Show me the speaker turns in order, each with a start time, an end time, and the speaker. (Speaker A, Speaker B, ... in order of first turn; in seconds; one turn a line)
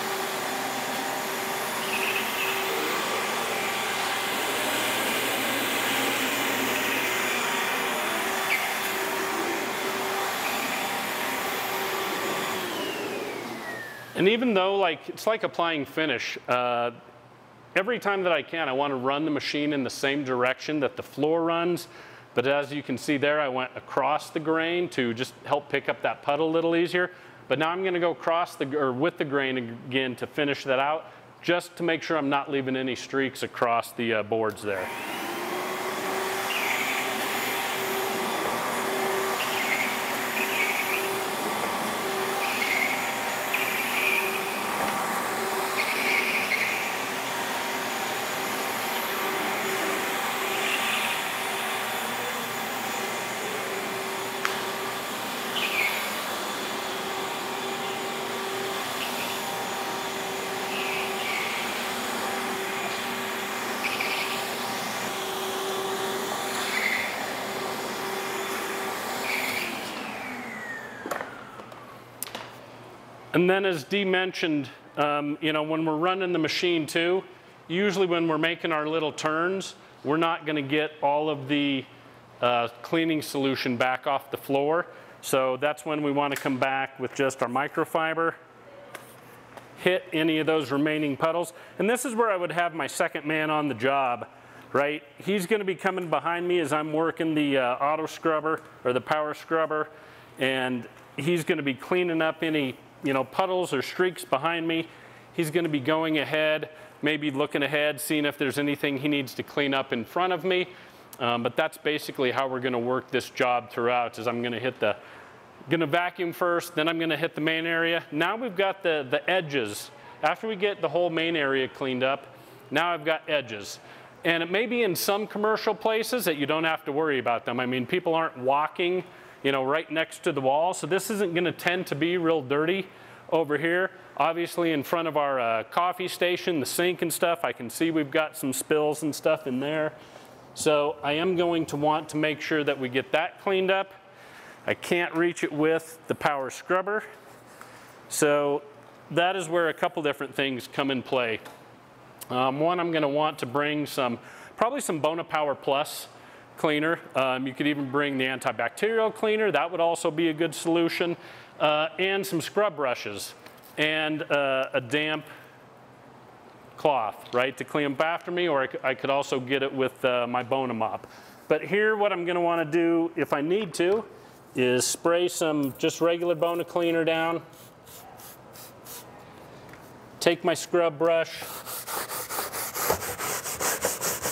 Speaker A: 14.2-17.0
Speaker A: 17.8-34.9
Speaker A: 73.3-81.9
Speaker A: 82.4-88.4
Speaker A: 89.8-115.0
Speaker A: 115.7-140.0
Speaker A: 140.6-143.9
Speaker A: 144.7-147.1
Speaker A: 148.1-151.4
Speaker A: 152.3-165.3
Speaker A: 166.8-177.4
Speaker A: 180.2-181.5